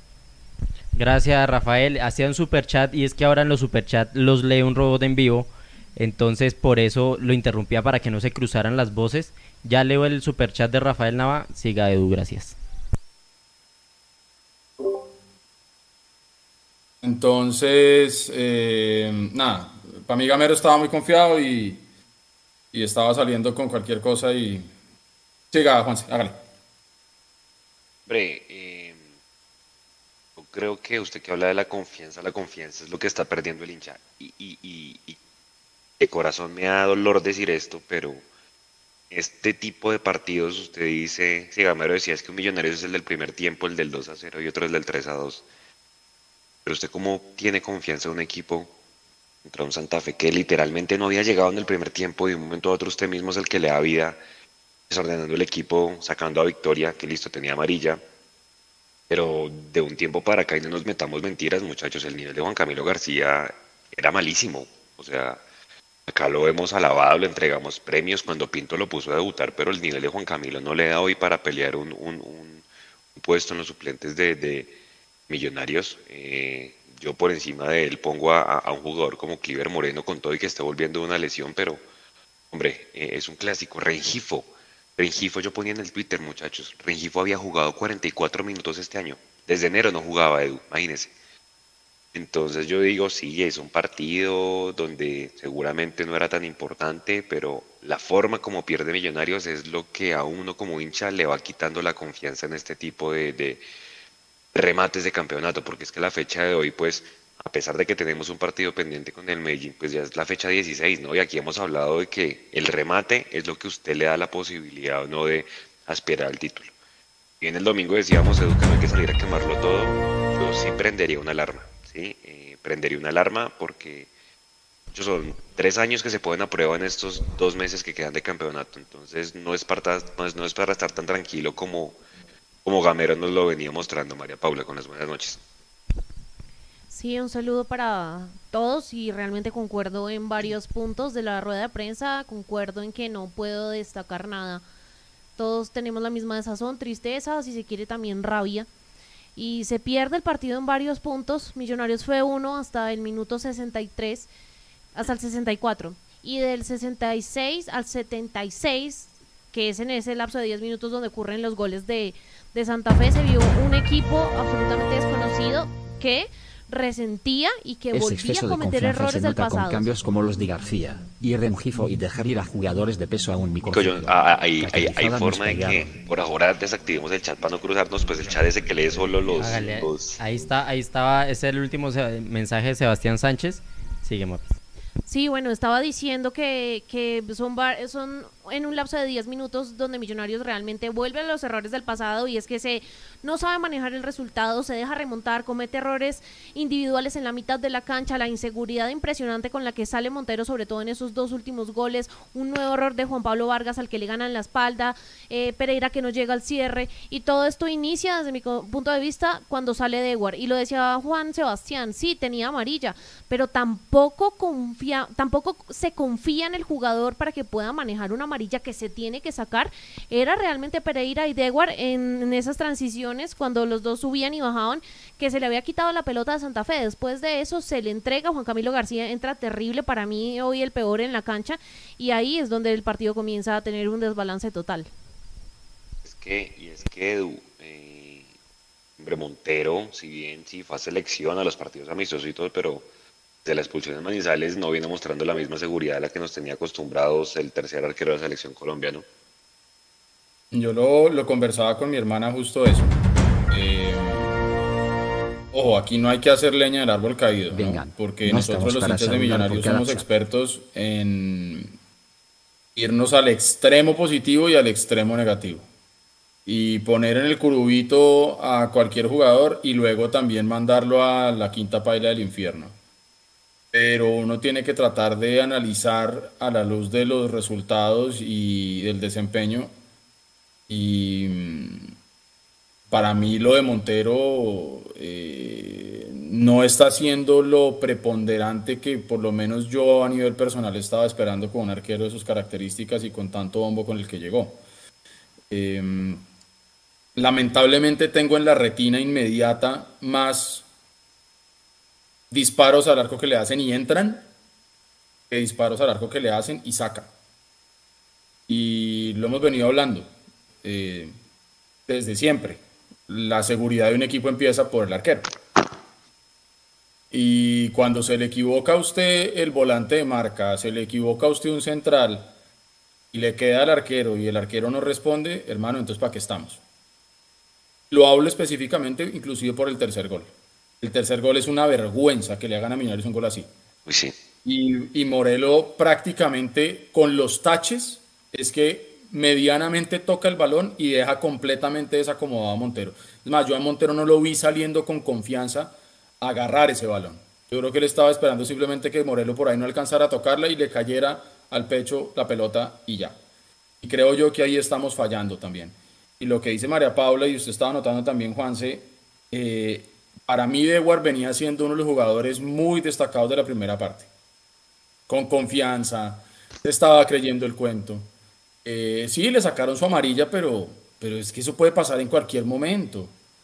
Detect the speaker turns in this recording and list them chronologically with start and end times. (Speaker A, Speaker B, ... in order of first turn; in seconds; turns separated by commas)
Speaker A: 0.9-12.6, Speaker B: 17.0-21.8, Speaker B: 22.7-24.7, Speaker B: 25.5-26.4, Speaker C: 28.1-29.0, Speaker C: 30.4-35.2, Speaker C: 36.0-38.2, Speaker C: 39.1-45.5, Speaker C: 46.6-48.7, Speaker C: 49.5-54.2, Speaker C: 54.9-58.0, Speaker C: 59.1-65.4, Speaker C: 66.1-72.6, Speaker C: 73.2-74.7, Speaker C: 75.3-81.8, Speaker C: 82.5-91.1, Speaker C: 92.1-103.6, Speaker C: 104.5-116.7, Speaker C: 117.4-124.1, Speaker C: 124.9-132.0, Speaker C: 132.7-135.4, Speaker D: 136.9-144.6, Speaker D: 145.4-148.7, Speaker D: 149.4-154.3, Speaker D: 154.9-169.8, Speaker E: 167.9-175.9, Speaker C: 173.7-180.2, Speaker A: 179.4-184.4, Speaker D: 185.1-234.9, Speaker C: 236.1-238.3, Speaker C: 239.0-242.9, Speaker C: 243.4-249.1, Speaker B: 250.5-253.0, Speaker B: 253.5-254.4, Speaker B: 255.5-261.7, Speaker E: 257.5-260.1, Speaker B: 262.8-265.6, Speaker B: 266.5-272.7, Speaker B: 273.7-279.7, Speaker B: 280.7-281.9, Speaker B: 282.9-294.6, Speaker B: 295.5-296.2, Speaker B: 297.2-300.6, Speaker B: 302.3-304.3, Speaker B: 305.3-307.1, Speaker B: 308.5-310.1, Speaker B: 310.6-311.2, Speaker B: 311.9-315.3, Speaker B: 317.1-322.3, Speaker B: 323.1-326.6, Speaker B: 327.9-333.5, Speaker C: 333.9-334.1, Speaker B: 334.4-353.2, Speaker B: 353.8-364.1, Speaker B: 365.1-368.1, Speaker B: 368.6-373.1